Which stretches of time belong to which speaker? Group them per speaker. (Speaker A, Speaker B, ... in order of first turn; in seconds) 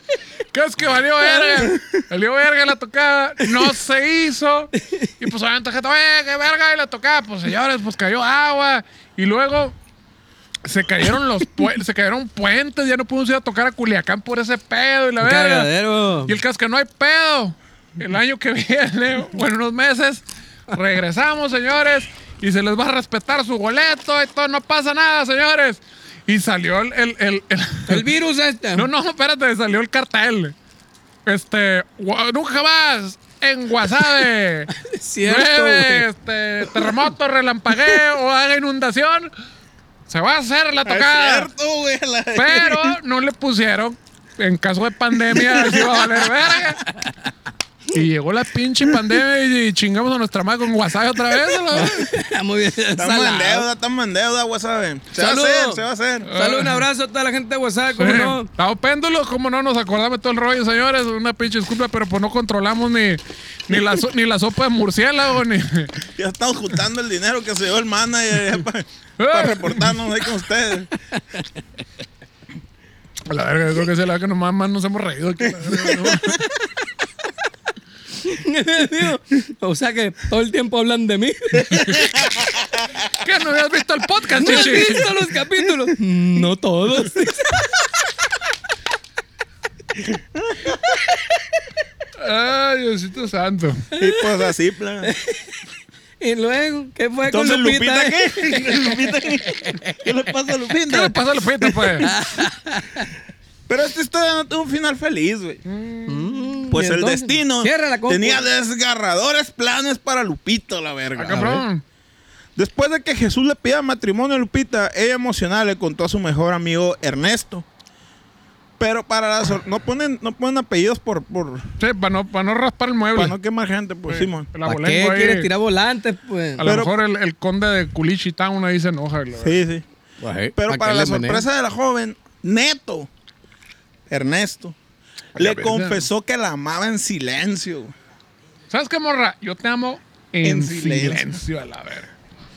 Speaker A: 0.5-9.7, 10.6-15.7, 16.2-28.1, 28.7-30.5, 31.2-34.7, 35.2-39.3, 40.1-41.5, 42.3-46.9, 47.9-52.0, 56.3-56.9, 58.0-65.9, 69.2-69.9, 73.3-76.4, 83.2-85.0, 92.2-93.9, 100.9-102.2, 105.7-106.5, 111.2-111.8, 121.8-123.3, 124.1-125.5, 126.6-129.6, 135.4-136.0, 138.7-142.1
Speaker B: 1.5-1.8, 40.8-43.0, 45.3-46.0, 53.0-56.3, 66.0-70.9, 75.9-76.4, 82.3-82.7, 90.3-90.8, 94.0-95.1, 97.3-101.2, 103.7-105.6, 106.7-111.6, 112.5-117.7, 118.8-121.7, 123.1-124.5, 126.6-127.0, 129.3-129.8, 130.5-133.1, 134.1-134.7, 135.3-137.9, 140.4-141.4
Speaker C: 15.2-16.3, 27.9-28.9, 34.7-36.0, 51.7-53.7, 55.1-58.5, 78.2-82.2, 84.4-87.7, 94.0-94.2, 95.0-95.5, 96.2-99.0, 99.5-100.0, 102.0-103.1, 106.1-108.5, 124.7-126.6, 130.2-131.4